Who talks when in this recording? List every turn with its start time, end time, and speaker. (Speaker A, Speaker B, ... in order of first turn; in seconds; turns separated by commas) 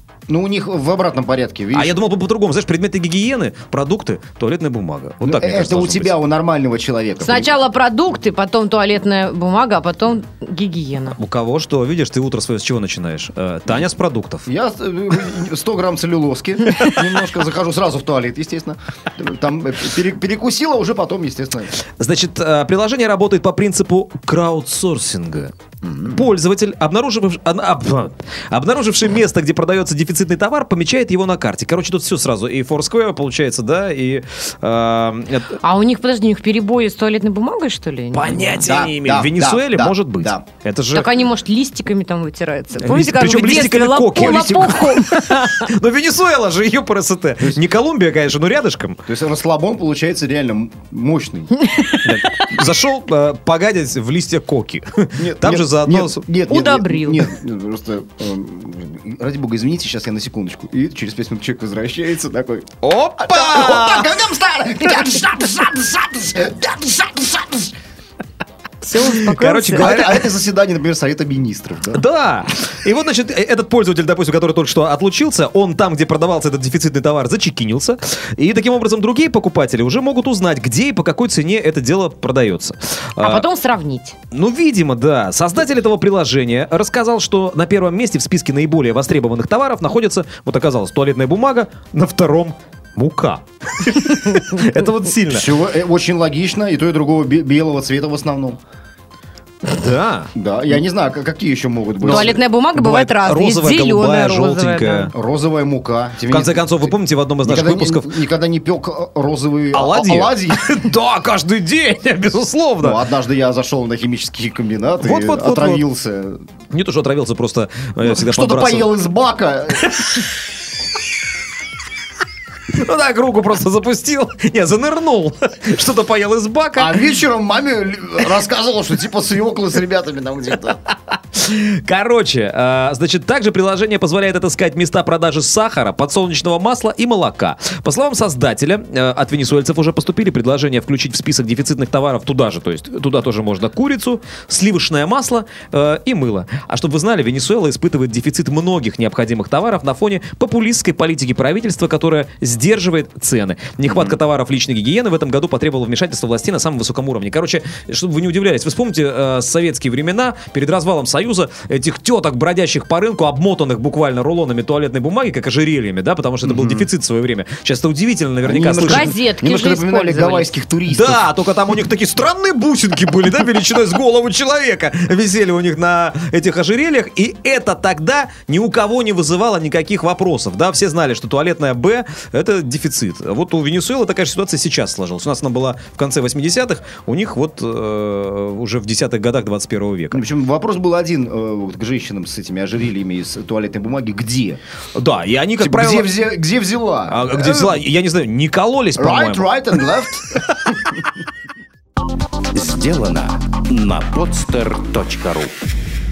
Speaker A: 0.3-2.0, Speaker B: 1.7-6.2, Speaker A: 5.2-7.6, Speaker C: 7.2-11.2, Speaker B: 11.2-14.5, Speaker A: 14.5-21.7, Speaker B: 22.0-25.5, Speaker A: 25.8-26.2, Speaker B: 26.1-35.6, Speaker C: 35.6-38.7, Speaker B: 38.1-41.2, Speaker A: 38.6-40.4, Speaker C: 40.9-45.5, Speaker B: 42.8-49.0, Speaker A: 49.1-51.6, Speaker B: 52.0-56.2, Speaker A: 55.2-67.7, Speaker C: 56.5-57.3, Speaker B: 62.8-64.2, Speaker C: 68.8-69.9, Speaker B: 69.3-70.3, Speaker A: 69.7-72.0, Speaker B: 71.9-83.5, Speaker C: 83.2-84.2, Speaker B: 84.3-95.5, Speaker A: 95.3-98.6, Speaker B: 99.7-100.8, Speaker A: 100.3-102.4, Speaker B: 102.0-105.1, Speaker C: 102.1-105.1, Speaker A: 105.1-110.8, Speaker B: 106.3-108.1, Speaker B: 109.7-113.0, Speaker A: 112.8-116.4, Speaker B: 115.0-115.8, Speaker B: 116.7-118.9, Speaker A: 118.0-120.0, Speaker B: 119.9-120.2, Speaker B: 122.7-127.0, Speaker A: 126.8-130.8, Speaker B: 131.3-169.1, Speaker A: 153.9-154.2, Speaker A: 166.4-166.9, Speaker A: 168.4-171.3, Speaker C: 168.7-170.5, Speaker B: 170.9-190.2, Speaker A: 190.1-194.6, Speaker B: 195.0-196.1, Speaker A: 195.6-197.8, Speaker B: 197.1-201.1, Speaker A: 199.0-200.4, Speaker D: 202.5-205.5